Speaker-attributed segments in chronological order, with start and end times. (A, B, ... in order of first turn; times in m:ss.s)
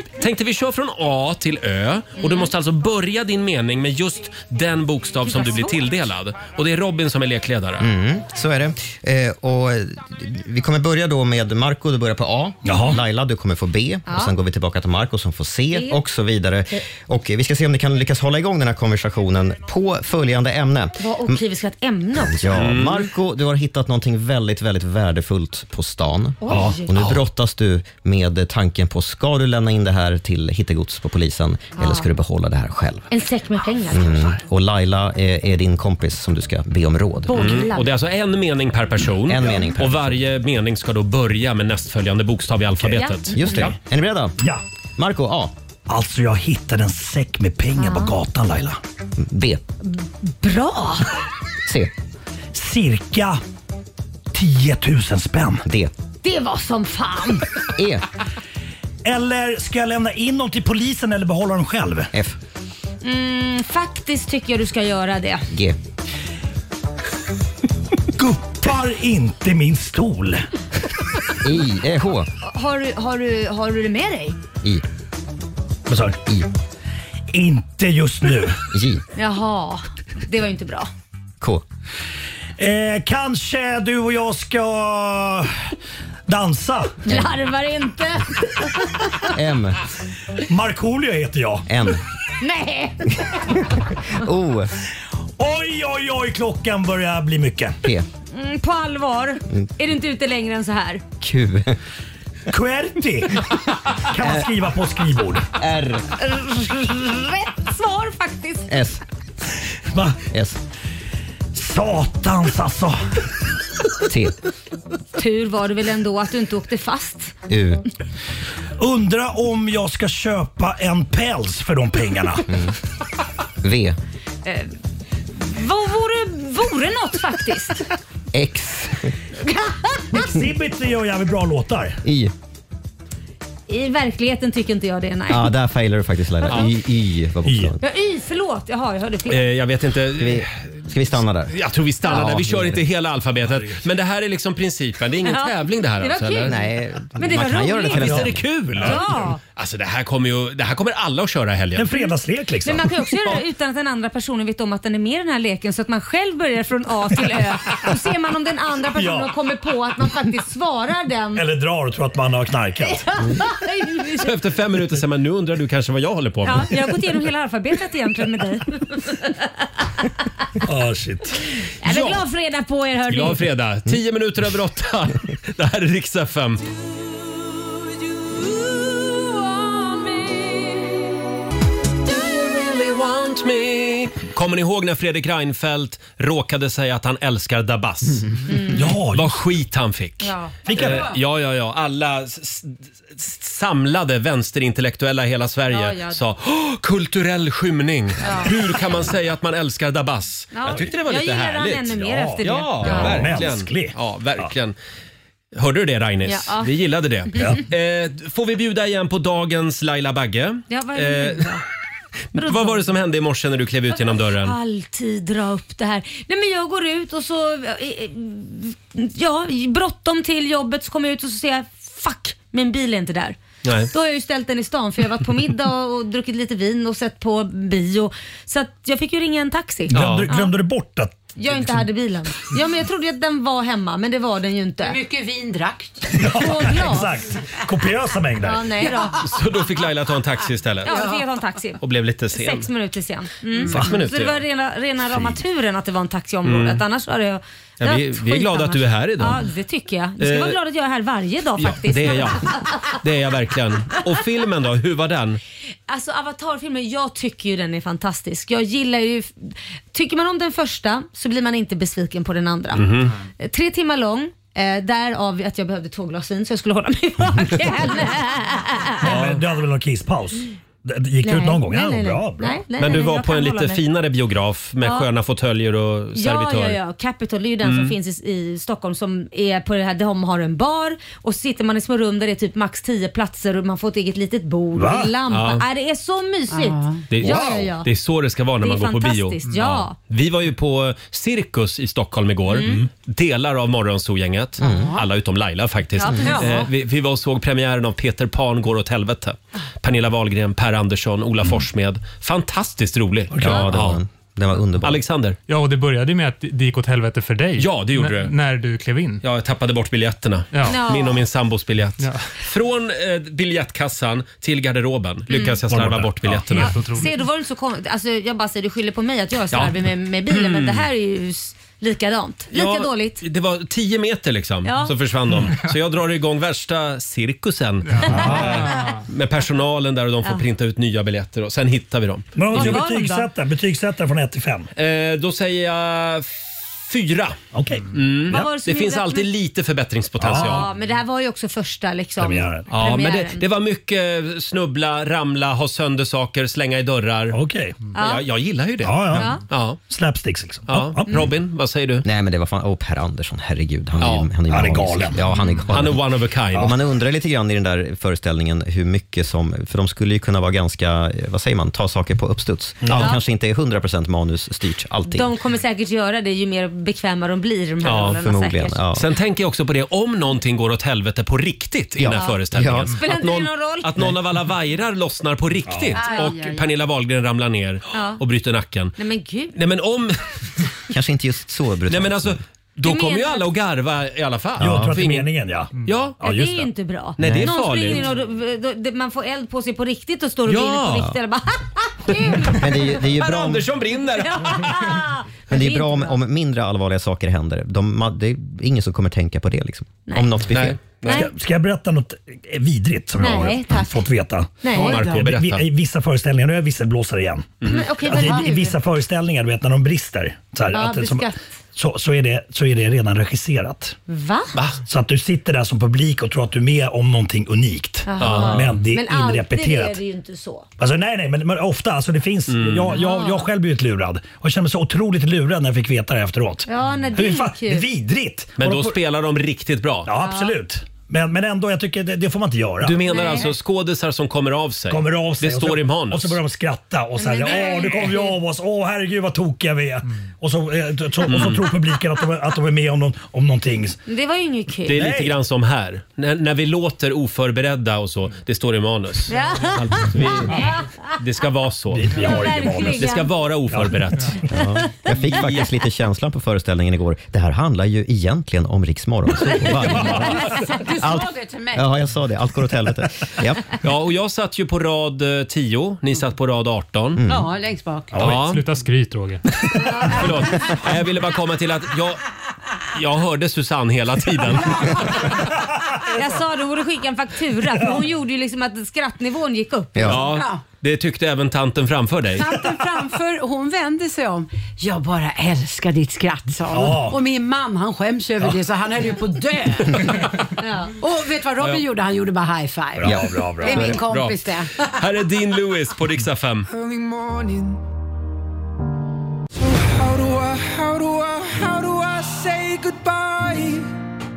0:00.2-0:07.9 A
0:02.2-0:02.5 B
0:05.2-0:05.8 B
0:07.8-0:21.4 C
0:12.6-0:13.0 D
0:14.1-0:14.3 B
0:21.0-0:22.5 B
0:22.2-0:33.1 C
0:22.5-0:23.1 A
0:26.4-0:26.9 B
0:26.5-0:26.8 D
0:31.8-0:32.0 B
0:33.1-0:34.3 B
0:33.9-0:37.6 C
0:37.2-0:37.9 B
0:37.3-0:43.7 A
0:39.3-0:40.2 C
0:43.0-0:43.7 B
0:43.3-0:44.4 C
0:45.0-0:45.5 C
0:45.9-0:48.8 D
0:47.8-0:48.1 B
0:49.2-0:49.6 C
0:49.8-0:51.1 B
0:51.6-0:51.9 C
0:52.5-0:53.4 D
0:54.3-0:55.6 D
0:55.6-0:55.9 C
0:56.2-0:57.5 B
0:57.7-0:58.0 C
0:59.0-1:02.1 D
1:03.0-1:05.5 B
1:05.5-1:05.8 C
1:08.1-1:10.5 D
1:11.4-1:12.3 C
1:12.4-1:14.4 B
1:15.9-1:16.2 D
1:17.3-1:18.6 D
1:18.7-1:19.0 C
1:19.1-1:20.9 B
1:22.6-1:25.6 D
1:26.3-1:27.0 D
1:27.0-1:29.3 B
1:27.1-1:27.3 C
1:29.2-1:29.8 C
1:30.4-1:31.7 D
1:31.6-1:32.0 C
1:32.4-1:33.3 B
1:33.2-1:34.8 C
1:35.4-1:37.8 D
1:38.3-1:41.0 B
1:41.2-1:41.8 C
1:42.5-1:45.5 D
1:44.2-1:44.5 C
1:45.5-1:46.0 C
1:46.2-1:48.7 B
1:48.7-1:49.0 C
1:49.9-1:50.2 D
1:50.2-1:50.6 C
1:51.5-1:53.0 D
1:54.0-1:54.4 C
1:55.2-1:57.3 B
1:57.5-1:57.8 C
1:58.8-2:02.5 D
2:02.5-2:02.7 C
2:03.6-2:04.0 C
2:04.4-2:04.7 B
2:05.4-2:07.9 B
2:08.3-2:09.1 C
2:09.4-2:10.4 B
2:10.1-2:12.0 D
2:12.0-2:12.3 C
2:13.7-2:15.5 B
2:15.3-2:17.8 C
2:17.4-2:17.7 D
2:17.8-2:19.4 B
2:19.3-2:26.6 A
2:20.2-2:22.8 C
2:25.3-2:26.6 B
2:26.5-2:28.4 C
2:27.1-2:28.2 B
2:27.9-2:31.9 A
2:28.0-2:29.0 D
2:28.8-2:29.4 B
2:31.7-2:33.4 D
2:32.6-2:41.4 B
2:38.9-2:39.3 D
2:41.3-2:43.0 D
2:42.8-2:44.3 B
2:44.2-2:46.8 A
2:46.4-2:49.6 B
2:50.6-2:51.4 D
2:51.8-2:53.4 B
2:51.8-2:52.2 A
2:53.1-2:56.7 A
2:59.8-3:00.7 B
3:02.0-3:08.4 A
3:08.5-3:08.8 B
3:08.7-3:09.4 D
3:09.1-3:24.7 A
3:10.2-3:10.5 B
3:10.6-3:11.1 D
3:15.7-3:16.2 B
3:18.2-3:18.5 B
3:20.5-3:23.4 B
3:22.0-3:24.5 D
3:25.5-3:31.5 A
3:26.2-3:26.7 B
3:27.4-3:27.6 D
3:30.7-3:31.6 B
3:32.3-3:32.8 B
3:32.3-3:34.6 A
3:34.1-3:50.5 B
3:43.6-3:43.9 A
3:49.9-3:51.8 D
3:49.9-3:50.3 A
3:51.4-3:55.0 B
3:54.8-3:56.3 E
3:56.1-3:58.7 D
3:56.3-3:57.1 B
3:58.4-3:59.2 B
3:58.8-3:59.4 E
3:59.2-4:01.0 A
4:00.8-4:12.9 B
4:00.8-4:01.2 E
4:01.8-4:02.7 A
4:03.7-4:04.4 A
4:03.7-4:04.0 D
4:05.1-4:05.4 D
4:06.4-4:06.8 A
4:07.8-4:09.4 A
4:10.2-4:10.6 A
4:11.6-4:15.4 A
4:15.9-4:29.1 B
4:22.7-4:23.1 A
4:29.0-4:32.6 D
4:29.0-4:29.4 A
4:31.2-4:33.8 B
4:32.8-4:36.8 A
4:36.2-4:47.9 B
4:37.6-4:37.9 A
4:44.7-4:45.1 D
4:45.3-4:45.6 A
4:46.5-4:47.1 E
4:47.1-5:04.0 A
4:47.2-4:47.7 D
4:48.6-4:49.9 B
4:52.5-4:52.8 B
4:54.6-4:55.1 E
4:54.6-4:54.9 C
4:56.0-4:56.7 B
4:56.2-4:56.6 E
5:03.3-5:03.6 D
5:03.4-5:05.0 C
5:04.8-5:05.4 A
5:05.5-5:09.2 F
5:07.6-5:08.3 A
5:09.2-5:16.8 A
5:10.5-5:10.8 F
5:10.6-5:11.2 B
5:15.3-5:15.6 B
5:15.7-5:16.6 D
5:16.6-5:23.2 B
5:16.7-5:17.1 F
5:20.3-5:20.8 A
5:22.5-5:32.8 A
5:24.6-5:24.9 B
5:27.9-5:28.9 F
5:28.0-5:28.6 D
5:32.3-5:34.7 D
5:32.5-5:33.3 B
5:34.8-5:37.4 A
5:37.5-5:38.5 D
5:37.9-5:40.7 A
5:38.3-5:39.3 B
5:40.2-5:40.7 D
5:40.3-5:43.4 B
5:42.2-5:42.7 D
5:42.7-5:47.4 A
5:47.3-5:47.8 D
5:47.9-5:48.2 B
5:47.9-5:49.8 A
5:48.8-5:51.3 D
5:49.1-5:49.4 B
5:50.7-5:52.0 A
5:52.0-6:05.3 C
5:54.0-5:54.3 A
5:54.5-5:55.2 D
5:55.7-5:56.7 A
6:02.8-6:03.1 D
6:05.1-6:08.8 B
6:07.8-6:08.2 A
6:08.0-6:09.1 C
6:08.9-6:19.0 A
6:12.0-6:12.9 C
6:12.1-6:13.9 B
6:15.6-6:16.0 D
6:16.0-6:16.7 E
6:16.0-6:16.3 B
6:17.9-6:18.2 B
6:19.0-6:19.5 B
6:19.5-6:20.2 A
6:20.9-6:22.4 C
6:21.9-6:25.3 A
6:22.8-6:23.5 B
6:24.6-6:24.9 C
6:24.6-6:26.7 D
6:25.8-6:26.2 A
6:26.2-6:33.0 B
6:27.2-6:28.0 A
6:27.2-6:27.5 C
6:30.5-6:31.1 A
6:32.1-6:35.0 A
6:32.5-6:33.7 C
6:34.0-6:36.2 B
6:35.5-6:40.8 C
6:40.5-6:41.3 A
6:41.0-6:41.3 B
6:41.1-6:54.0 D
6:43.2-6:44.0 B
6:44.6-6:45.0 B
6:44.7-6:45.6 A
6:44.7-6:45.2 E
6:47.6-6:48.8 B
6:50.7-6:51.4 B
6:54.1-6:54.6 B
6:54.8-7:00.0 D
6:58.0-7:00.7 B
6:58.2-6:58.7 A
7:00.8-7:09.0 D
7:02.5-7:03.0 A
7:02.9-7:03.4 B
7:06.6-7:07.8 B
7:08.6-7:10.1 A
7:10.0-7:13.1 D
7:10.2-7:10.5 B
7:12.8-7:16.4 A
7:13.1-7:13.5 B
7:14.9-7:24.0 D
7:17.2-7:18.4 B
7:21.2-7:21.7 A
7:24.1-7:25.0 B
7:24.9-7:32.3 A
7:24.9-7:25.3 D
7:29.3-7:31.1 B
7:31.9-7:34.4 D
7:32.2-7:33.3 B
7:32.9-7:34.4 A
7:34.5-7:43.7 C
7:35.1-7:35.7 A
7:40.4-7:41.9 E
7:43.8-7:47.2 A
7:47.2-7:47.5 C
7:47.2-7:48.2 E
7:48.1-7:48.5 D
7:48.2-7:48.7 A
7:48.2-7:49.4 F
7:49.8-7:50.1 B
7:50.0-7:52.2 A
7:52.9-7:55.2 A
7:55.2-7:56.2 D
7:56.0-8:00.1 B
7:59.9-8:00.2 C
8:00.0-8:02.5 A
8:00.2-8:00.6 E
8:02.3-8:10.3 E
8:06.7-8:07.2 D
8:10.6-8:10.9 B
8:10.9-8:14.8 E
8:13.0-8:14.0 D
8:13.0-8:14.0 C
8:14.0-8:16.7 A
8:16.7-8:17.8 G
8:19.6-8:23.8 G